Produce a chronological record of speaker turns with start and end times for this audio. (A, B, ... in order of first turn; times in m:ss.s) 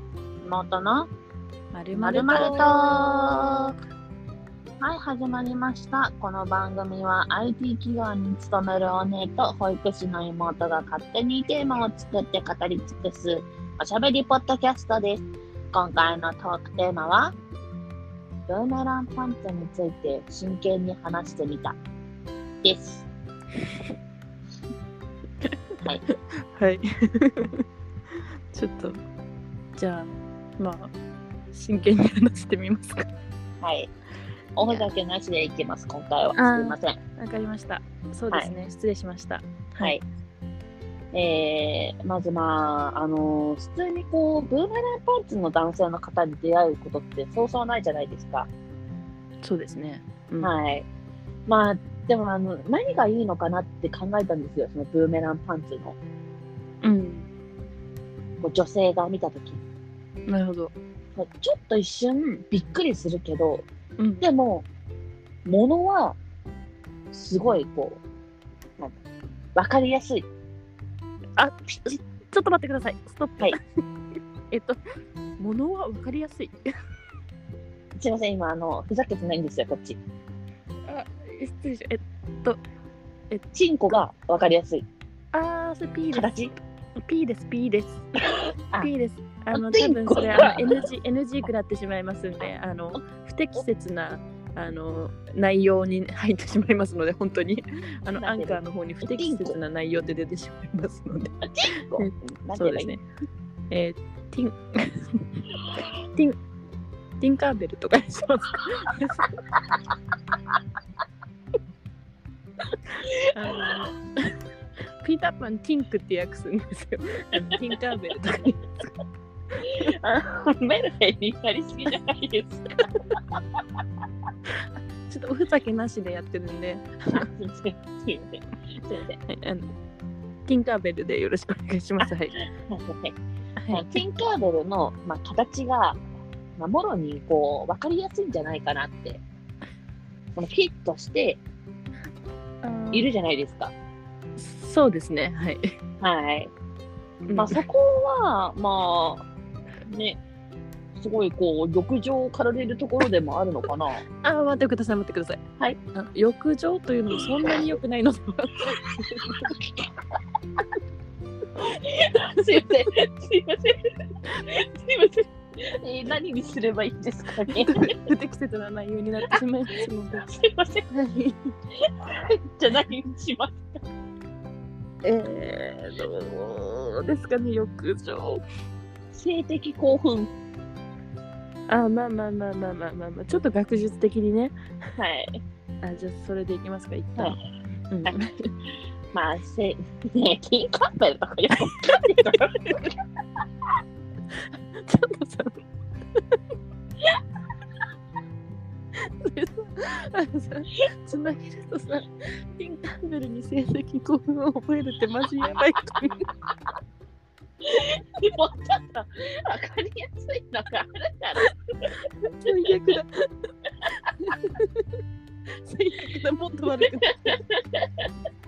0:00.4-0:01.1 A
0:01.7-0:03.4 B
0:02.0-0:03.7 A
0:04.8-0:17.4 A
0:18.5-0:21.8 A
0:22.6-0:23.1 A
0:26.1-0:27.6 B
0:28.5-0:29.0 B
0:29.8-0:30.9 B
0:31.5-0:33.1 B
0:33.6-0:33.9 A
0:34.6-0:37.0 A
0:36.4-0:40.0 B
0:41.1-0:48.5 A
0:49.4-0:50.5 B
0:50.4-0:50.9 A
0:51.5-0:56.0 A
0:56.8-0:57.3 B
0:58.4-0:59.6 A
1:00.3-1:00.7 B
1:01.2-1:03.7 A
1:04.0-1:04.3 B
1:04.2-1:04.7 A
1:05.5-1:06.2 A
1:07.1-1:08.0 A
1:09.6-1:10.3 A
1:11.4-1:13.6 B
1:14.5-1:14.8 B
1:15.4-1:16.6 B
1:18.0-1:20.0 A
1:20.9-1:22.6 B
1:23.5-1:24.8 A
1:25.3-1:26.4 B
1:26.1-1:26.5 A
1:27.0-1:28.1 B
1:28.8-1:43.0 B
1:29.5-1:30.8 A
1:38.2-1:39.6 A
1:41.4-1:42.9 A
1:43.7-1:45.4 B
1:46.1-1:46.4 B
1:47.2-1:49.3 B
1:53.0-1:54.4 B
1:53.0-1:53.8 A
1:55.0-1:58.8 B
1:57.3-1:57.6 A
1:59.6-2:03.4 A
1:59.6-1:59.9 B
2:04.6-2:07.3 B
2:07.1-2:09.2 A
2:09.3-2:09.7 B
2:10.5-2:12.4 B
2:12.0-2:13.2 A
2:13.6-2:14.0 B
2:13.7-2:16.0 A
2:16.6-2:19.2 A
2:20.4-2:21.4 A
2:22.6-2:23.1 B
2:22.9-2:23.7 A
2:24.4-2:25.8 B
2:26.0-2:26.5 A
2:27.3-2:27.6 B
2:27.4-2:29.3 A
2:29.9-2:30.2 A
2:31.0-2:34.0 A
2:34.2-2:35.4 B
2:35.9-2:39.6 B
2:39.2-2:40.0 A
2:41.6-2:48.0 A
2:42.4-2:42.6 B
2:47.5-2:50.3 B
2:50.2-2:50.9 A
2:50.9-2:51.5 B
2:51.8-2:53.8 A
2:55.0-2:58.4 B
2:59.1-3:00.3 A
3:01.7-3:04.6 B
3:05.0-3:05.4 A
3:05.8-3:07.4 B
3:07.9-3:08.5 B
3:09.1-3:13.0 A
3:11.9-3:12.4 B
3:14.3-3:15.6 B
3:19.0-3:26.3 B
3:27.6-3:33.0 A
3:31.9-3:34.9 B
3:35.5-3:37.4 B
3:36.8-3:38.1 A